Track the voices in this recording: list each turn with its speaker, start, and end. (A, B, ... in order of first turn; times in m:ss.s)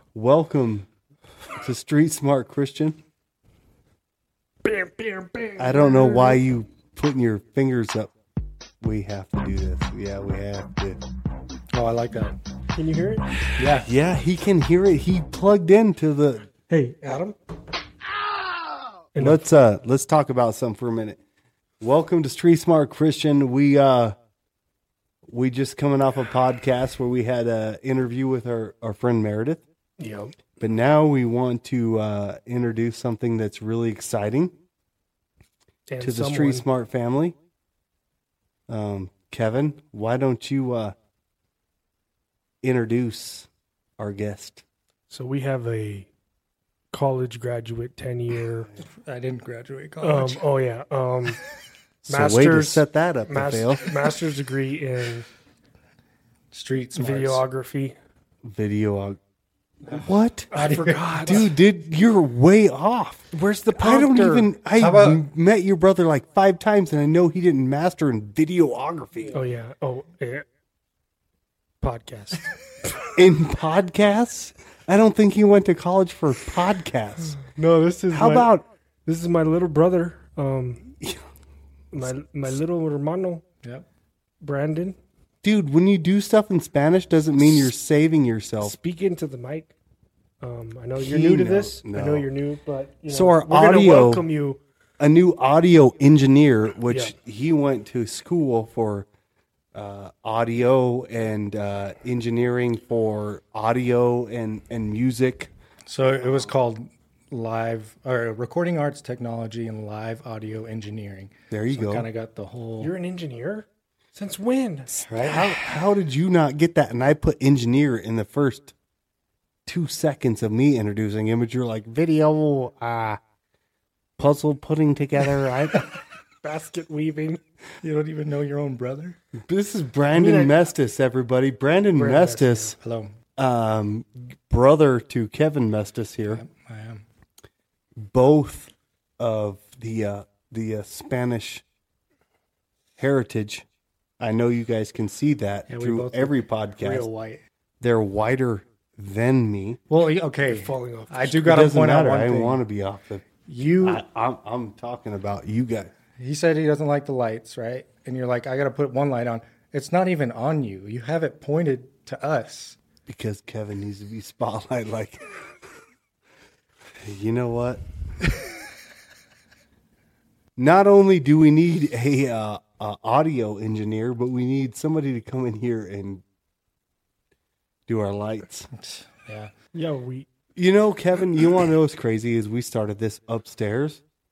0:00.1-0:00.9 A
0:01.6-0:03.0 A
0:04.6-0:06.4 B
0:05.6-0:08.1 A
0:08.8-0:11.0 A
0:11.7-0:12.4 C
0:12.8-0:13.4 B
0:13.6-0:13.9 C
0:13.8-0:16.5 A
0:16.7-0:17.4 B
0:19.1-0:19.4 B
0:19.2-0:21.2 A
0:21.8-0:24.2 A
0:25.3-0:29.6 A
0:30.0-0:30.4 B
0:30.6-0:34.5 A
0:35.9-0:36.7 B
0:36.0-0:37.4 A
0:38.7-0:41.0 A
0:42.6-0:44.6 A
0:45.1-0:46.1 B
0:46.9-0:48.7 B
0:48.8-0:50.4 C
0:50.0-0:51.4 B
0:52.0-0:54.1 A
0:52.1-0:55.3 B
0:56.5-0:57.4 C
0:57.0-0:57.9 B
0:58.4-0:59.2 A
0:59.9-1:01.5 C
0:59.9-1:00.6 A
1:00.5-1:01.5 B
1:01.2-1:09.4 A
1:03.3-1:04.5 B
1:04.7-1:05.2 C
1:09.3-1:10.4 B
1:11.8-1:13.1 B
1:13.1-1:17.4 A
1:17.4-1:18.5 B
1:18.1-1:18.6 A
1:19.1-1:21.0 B
1:21.0-1:21.3 A
1:21.9-1:23.4 B
1:24.4-1:25.0 B
1:25.4-1:28.8 A
1:28.6-1:29.7 B
1:30.4-1:34.6 B
1:31.0-1:32.3 A
1:33.1-1:34.2 A
1:35.0-1:39.1 A
1:39.7-1:45.5 A
1:45.9-1:52.9 C
1:51.5-1:52.1 A
1:52.8-1:55.0 B
1:55.1-1:55.6 C
1:55.1-1:58.7 A
1:59.7-2:03.2 A
2:04.2-2:05.9 A
2:06.4-2:07.4 B
2:07.8-2:09.2 C
2:09.4-2:12.8 A
2:10.1-2:10.6 B
2:12.0-2:12.7 B
2:12.8-2:13.1 C
2:13.4-2:16.4 A
2:16.3-2:17.0 C
2:18.0-2:21.6 A
2:23.0-2:23.7 A
2:24.2-2:27.1 A
2:25.7-2:27.4 C
2:27.8-2:29.8 A
2:29.9-2:32.6 C
2:30.5-2:31.6 B
2:31.4-2:33.3 A
2:33.5-2:34.0 C
2:33.8-2:35.9 A
2:36.2-2:42.8 C
2:43.1-2:45.5 A
2:47.0-2:47.8 A
2:50.6-2:56.2 A
2:57.9-2:58.7 A
2:58.7-2:59.5 C
2:59.7-3:00.3 B
3:00.6-3:04.0 A